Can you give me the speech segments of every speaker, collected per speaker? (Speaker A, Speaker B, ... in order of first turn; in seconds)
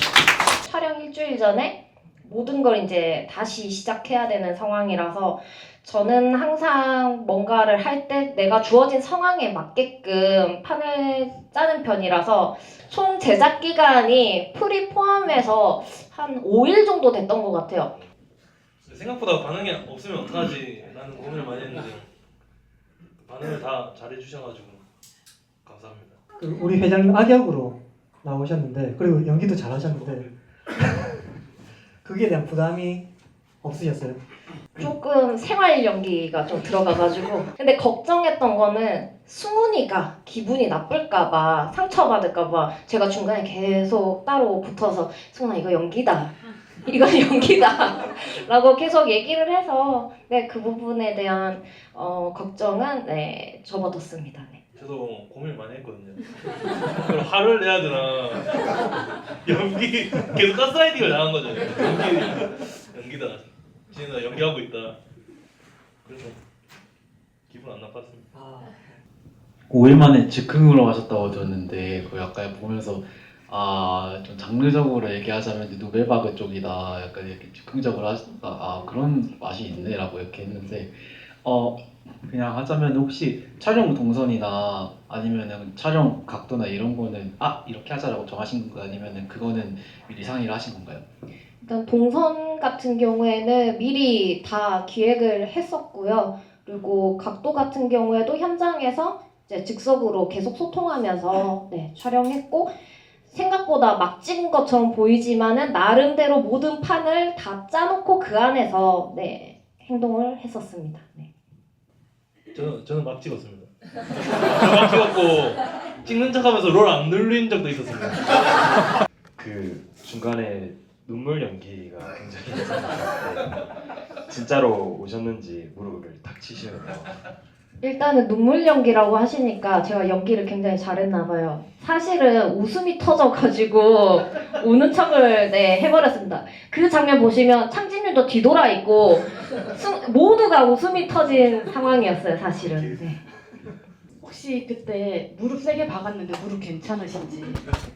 Speaker A: 0.6-17.9, 34.8-54.6, 91.6-102.7, 103.3-111.3, 127.8-143.2
Speaker B: 18.9-22.1, 23.2-24.8, 25.6-26.2, 54.8-58.9, 59.4-65.0, 66.0-66.4, 67.5-68.3, 112.5-113.7, 114.3-118.8
Speaker C: 26.4-30.3, 32.0-33.1, 33.6-34.2, 68.3-68.8
Speaker D: 69.7-91.0
Speaker E: 119.4-123.6, 124.3-127.2
Speaker F: 144.2-147.6